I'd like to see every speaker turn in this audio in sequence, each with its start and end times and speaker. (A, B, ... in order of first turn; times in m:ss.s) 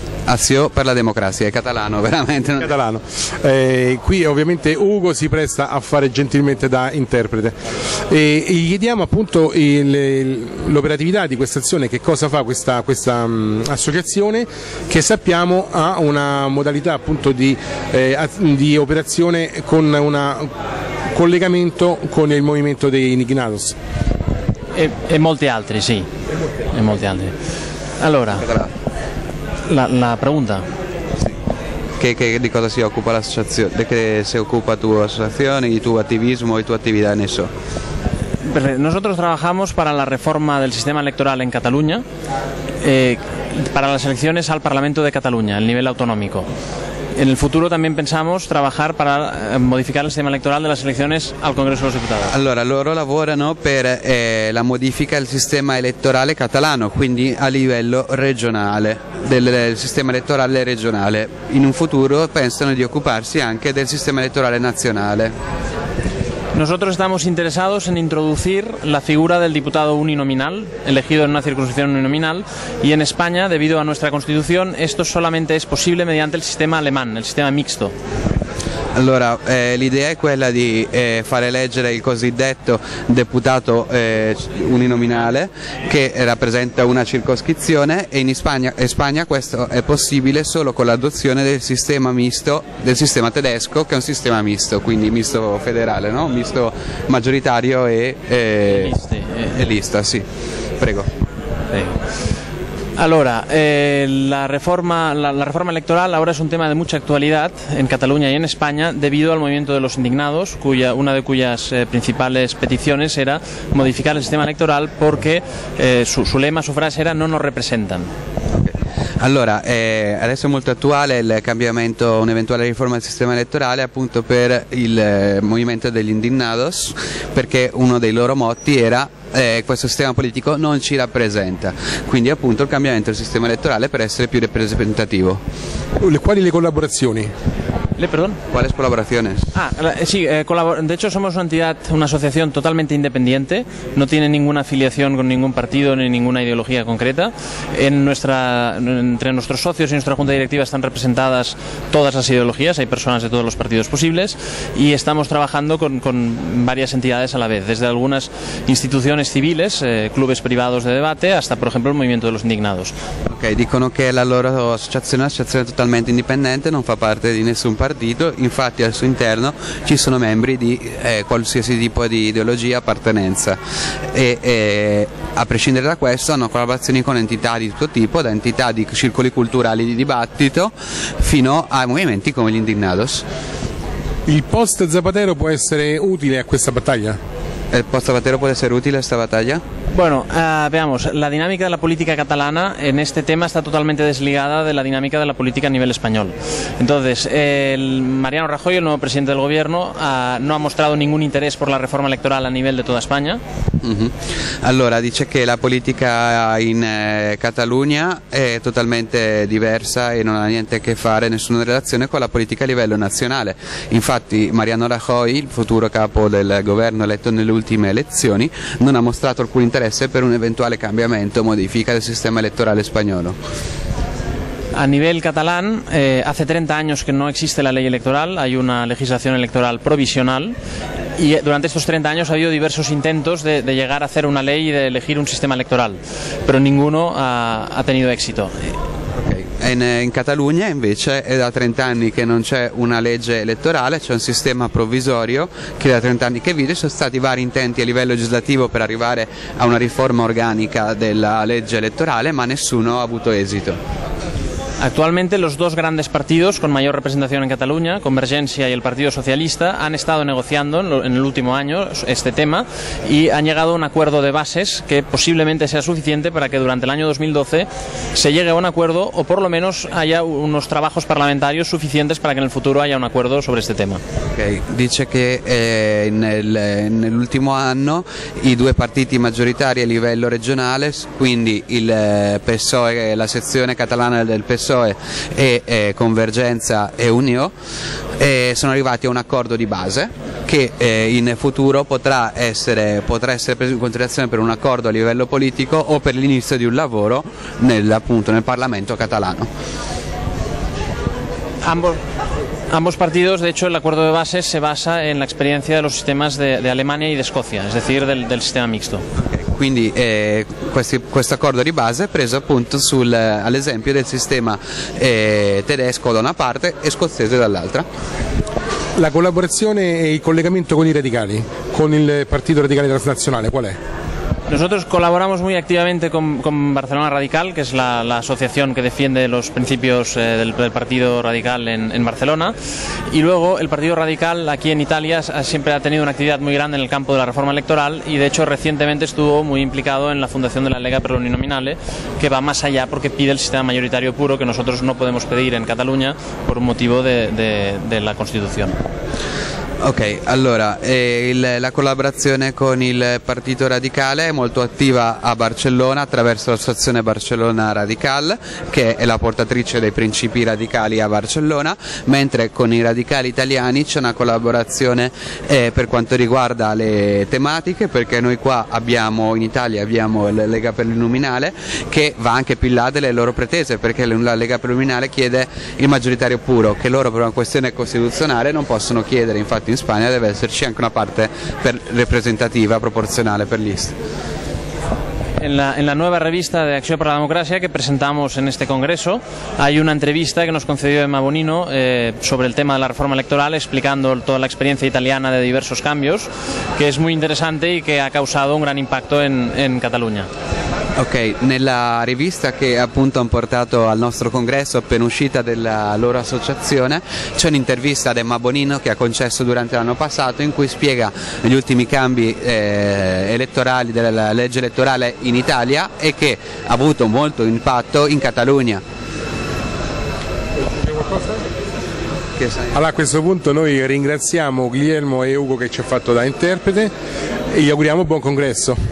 0:00.3-0:02.7 A
0:02.6-0:07.6 B
0:08.1-0:20.5 B
0:21.1-0:23.7 B
0:24.7-0:26.1 C
0:26.7-0:27.3 C
0:28.0-0:28.5 C
0:29.7-0:30.6 C
0:32.0-0:37.5 A
0:38.4-0:42.0 C
0:42.8-0:46.5 C
0:47.2-0:52.3 C
0:52.3-1:05.3 A
1:06.5-1:17.9 C
1:19.0-1:39.0 A
1:38.7-1:39.6 C
1:39.5-1:40.2 A
1:40.8-1:41.1 A
1:41.7-1:42.0 C
1:43.0-1:58.1 C
1:58.5-2:15.4 A
2:16.0-2:17.3 B
2:18.0-2:18.4 C
2:18.5-2:19.5 A
2:19.5-2:42.9 C
2:43.3-2:53.6 A
2:54.1-3:03.2 A
3:04.3-3:07.2 B
3:07.7-3:09.6 A
3:09.9-3:23.4 C
3:23.8-3:43.4 A
3:44.8-3:50.5 C
3:51.2-3:58.7 C
3:59.2-4:13.8 A
4:14.8-4:34.0 C
4:34.4-4:47.5 A
4:48.2-4:59.5 A
5:01.6-5:02.0 C
5:02.7-5:09.0 C
5:09.2-5:17.8 A
5:19.0-5:23.8 B
5:24.5-5:32.5 C
5:33.1-5:48.8 C
5:49.8-6:23.9 A
6:25.4-6:40.3 C
6:41.0-6:58.8 A
7:00.8-7:01.3 B
7:02.4-7:02.7 A
7:02.7-7:06.9 B
7:07.5-7:08.8 B